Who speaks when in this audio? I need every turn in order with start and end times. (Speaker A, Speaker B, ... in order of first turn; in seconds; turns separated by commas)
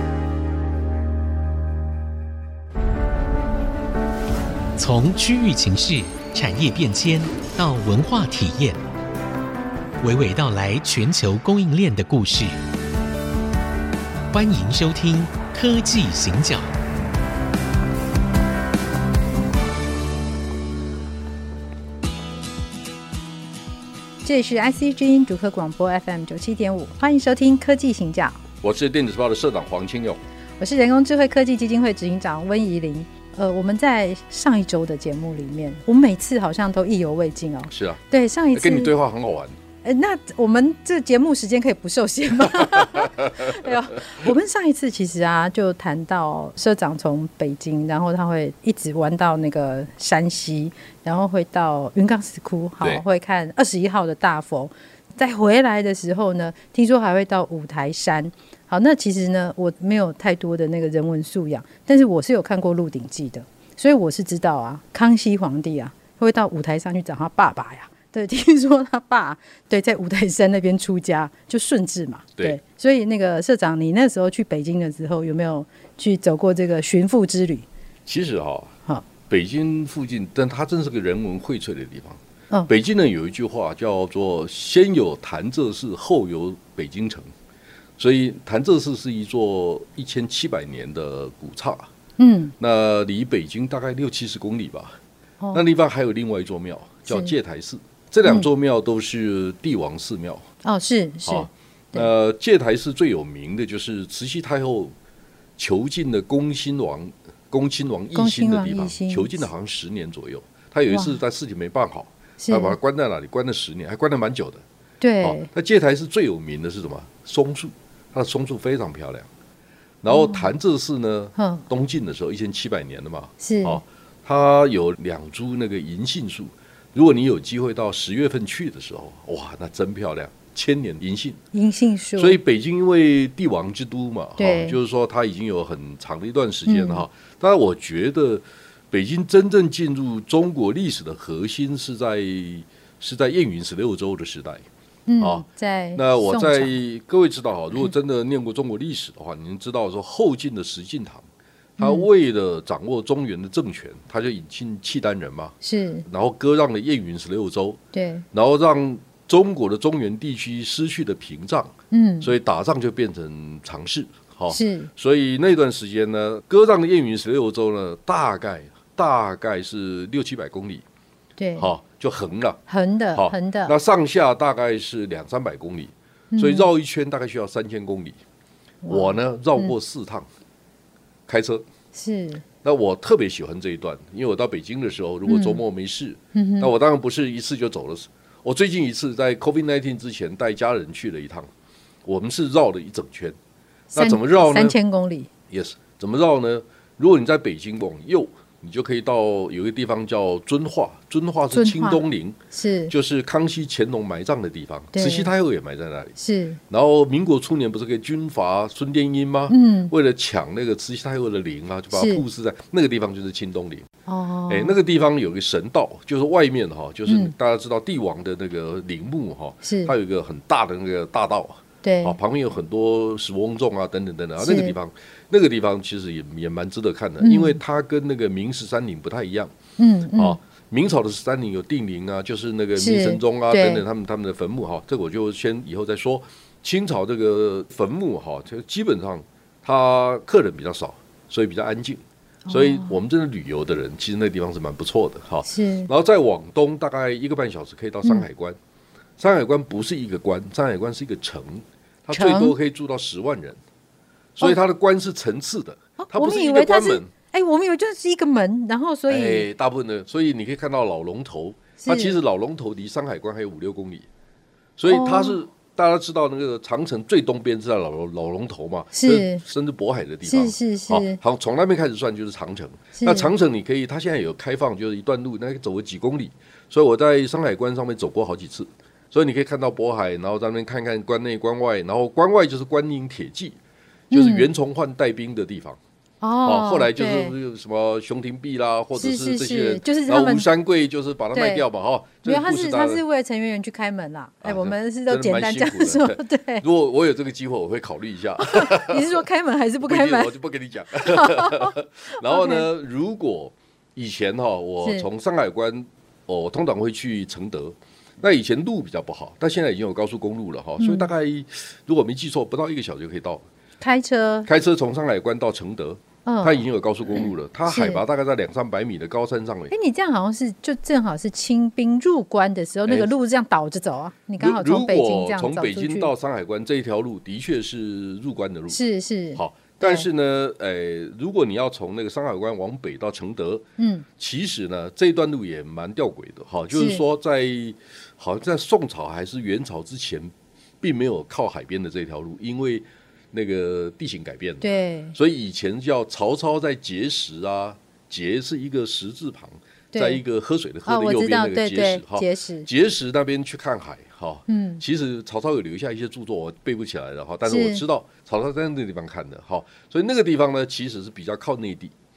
Speaker A: 4.8-8.8, Speaker A: 10.0-12.6, Speaker A: 14.3-16.7, Speaker B: 24.2-28.4, Speaker C: 28.6-30.2, Speaker B: 30.6-38.9, Speaker C: 37.7-38.0, Speaker C: 38.5-39.5, Speaker B: 39.8-77.7, Speaker C: 42.5-43.7, Speaker C: 78.1-78.7, Speaker C: 79.3-87.3, Speaker C: 88.0-91.9, Speaker B: 92.2-92.5, Speaker C: 92.6-95.0, Speaker C: 95.5-100.5, Speaker B: 97.1-97.3, Speaker B: 98.2-98.5, Speaker B: 100.6-102.1, Speaker C: 101.3-104.9, Speaker C: 105.6-114.6, Speaker B: 108.2-109.5, Speaker B: 110.9-111.2, Speaker B: 112.4-112.8, Speaker B: 115.0-115.5, Speaker C: 115.2-119.3, Speaker C: 120.0-131.4, Speaker B: 120.1-120.5, Speaker B: 121.4-121.6, Speaker B: 123.4-123.8, Speaker B: 131.5-132.4, Speaker C: 132.2-144.7, Speaker B: 134.4-134.8, Speaker B: 136.7-137.1, Speaker B: 145.1-146.7, Speaker C: 145.2-145.4, Speaker C: 146.0-151.3, Speaker C: 151.8-155.6, Speaker B: 151.8-152.1, Speaker B: 155.6-156.1, Speaker C: 156.1-157.8, Speaker B: 157.9-158.2, Speaker C: 158.3-170.8, Speaker B: 161.9-162.3, Speaker B: 164.5-164.9, Speaker B: 171.4-171.7, Speaker C: 171.6-172.6, Speaker B: 172.7-173.8, Speaker C: 173.2-178.2, Speaker B: 176.3-176.7, Speaker B: 178.8-179.7, Speaker C: 178.9-180.3, Speaker C: 181.3-181.7, Speaker B: 181.9-182.4, Speaker C: 182.6-191.5, Speaker B: 185.3-185.6, Speaker B: 186.3-186.7, Speaker C: 192.1-193.4, Speaker B: 193.9-195.3, Speaker C: 193.9-194.8, Speaker C: 195.5-202.4, Speaker B: 201.5-202.9, Speaker C: 202.9-206.2, Speaker B: 204.9-205.3, Speaker B: 206.2-206.6, Speaker C: 206.7-213.9, Speaker B: 209.5-209.9, Speaker B: 211.9-212.2, Speaker B: 214.1-214.8, Speaker C: 214.5-229.5, Speaker B: 217.1-217.3, Speaker B: 219.6-219.9, Speaker B: 221.8-222.2, Speaker B: 224.4-224.8, Speaker B: 227.2-227.6, Speaker B: 229.8-230.4, Speaker C: 230.2-248.6, Speaker B: 232.8-233.8, Speaker B: 242.5-243.0, Speaker B: 245.5-245.9, Speaker C: 249.2-253.6, Speaker B: 252.1-252.6, Speaker C: 254.4-257.1, Speaker B: 256.0-259.5, Speaker C: 259.1-264.1, Speaker B: 261.8-262.2, Speaker C: 264.8-283.6, Speaker B: 264.9-265.4, Speaker B: 268.9-269.4, Speaker B: 270.3-271.2, Speaker B: 272.9-273.3, Speaker B: 284.1-284.5, Speaker C: 284.1-285.8, Speaker B: 286.2-287.4, Speaker C: 286.4-293.0, Speaker B: 289.0-290.5, Speaker B: 291.3-291.6, Speaker B: 292.2-296.6, Speaker C: 294.4-299.2, Speaker B: 298.4-300.3, Speaker C: 299.8-313.4, Speaker B: 301.0-302.7, Speaker B: 310.8-311.1, Speaker B: 313.8-314.5, Speaker C: 314.5-319.7, Speaker B: 316.2-316.6, Speaker B: 317.1-318.0, Speaker B: 319.7-326.1, Speaker C: 322.9-323.1, Speaker C: 324.4-328.8, Speaker B: 328.7-330.1, Speaker C: 329.4-333.7, Speaker B: 333.8-334.1, Speaker C: 334.2-361.9, Speaker B: 336.7-337.0, Speaker B: 344.6-345.2, Speaker B: 349.9-350.2, Speaker B: 350.9-352.7, Speaker B: 354.5-354.8, Speaker B: 357.5-357.8